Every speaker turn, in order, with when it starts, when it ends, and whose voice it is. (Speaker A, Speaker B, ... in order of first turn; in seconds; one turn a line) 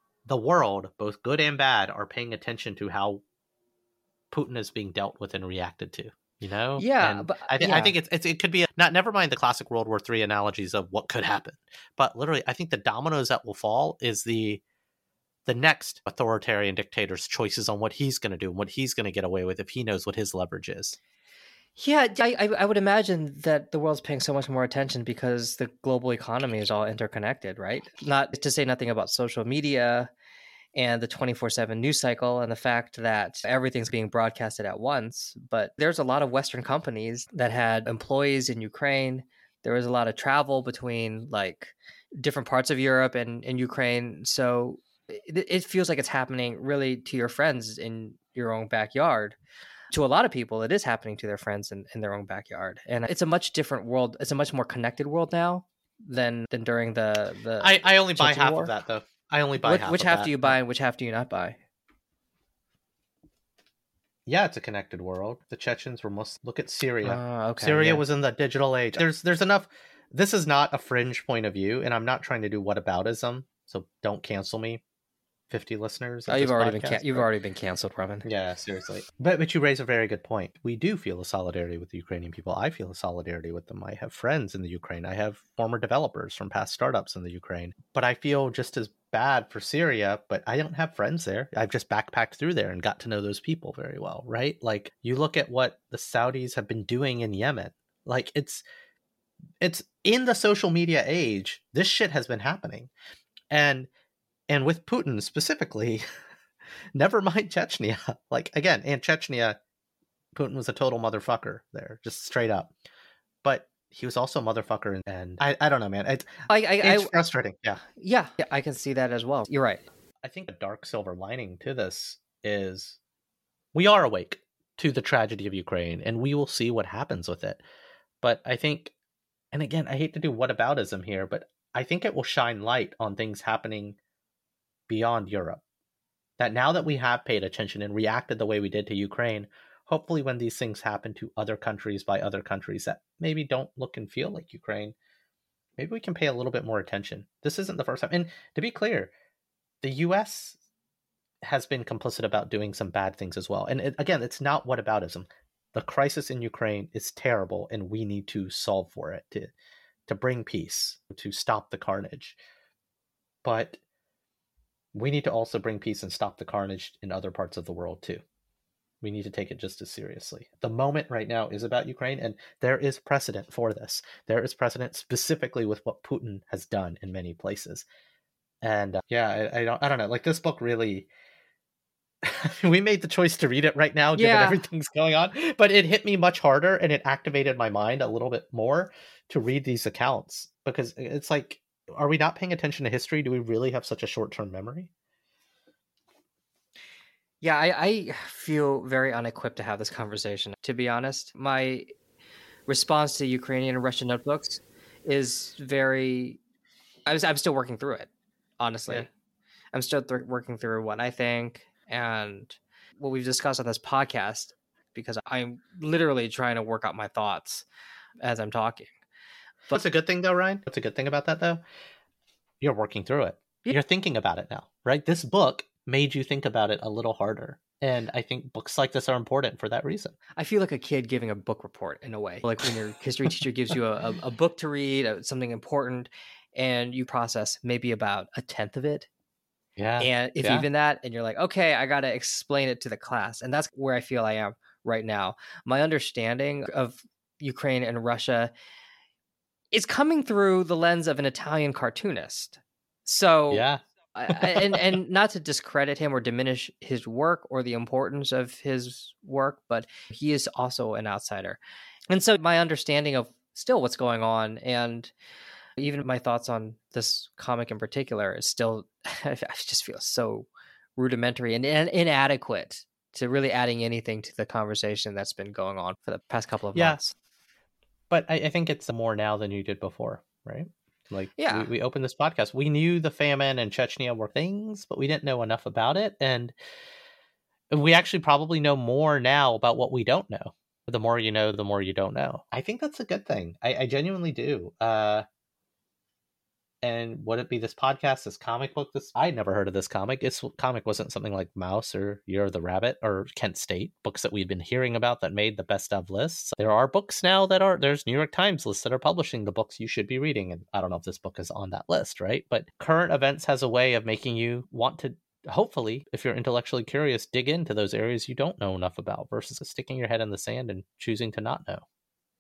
Speaker A: 0.3-3.2
Speaker A: 4.3-14.6
Speaker B: 6.8-7.9
Speaker A: 15.5-21.0
Speaker B: 21.8-30.1
Speaker B: 30.8-49.4
Speaker B: 49.9-58.7
Speaker A: 57.6-60.5
Speaker B: 59.6-61.6
Speaker A: 64.3-74.8
Speaker B: 67.0-68.0
Speaker A: 75.5-77.3
Speaker B: 76.3-78.3
Speaker A: 78.2-98.6
Speaker A: 99.6-102.9
Speaker A: 103.5-103.9
Speaker A: 104.5-106.0
Speaker A: 107.0-109.6
Speaker A: 110.3-112.7
Speaker A: 113.4-117.8
Speaker B: 116.5-117.1
Speaker B: 117.9-119.8
Speaker A: 120.2-123.0
Speaker A: 123.7-127.6
Speaker A: 128.2-128.9
Speaker A: 129.5-134.0
Speaker A: 134.9-135.6
Speaker A: 136.4-144.9
Speaker A: 145.8-149.1
Speaker A: 149.8-150.6
Speaker A: 151.4-159.5
Speaker A: 160.1-162.4
Speaker A: 163.4-163.8
Speaker A: 164.9-168.2
Speaker A: 169.0-177.9
Speaker A: 178.6-181.1
Speaker A: 182.2-194.9
Speaker B: 184.2-184.6
Speaker B: 197.4-201.9
Speaker B: 202.7-206.4
Speaker B: 207.1-209.1
Speaker B: 209.7-217.7
Speaker B: 218.2-218.9
Speaker A: 219.7-221.6
Speaker A: 222.6-230.2
Speaker B: 230.4-239.1
Speaker A: 239.8-240.7
Speaker B: 240.0-248.5
Speaker B: 249.7-261.6
Speaker A: 253.5-254.8
Speaker B: 262.1-265.1
Speaker B: 265.8-277.1
Speaker A: 278.1-286.5
Speaker B: 281.4-281.7
Speaker A: 287.7-295.3
Speaker A: 296.8-321.9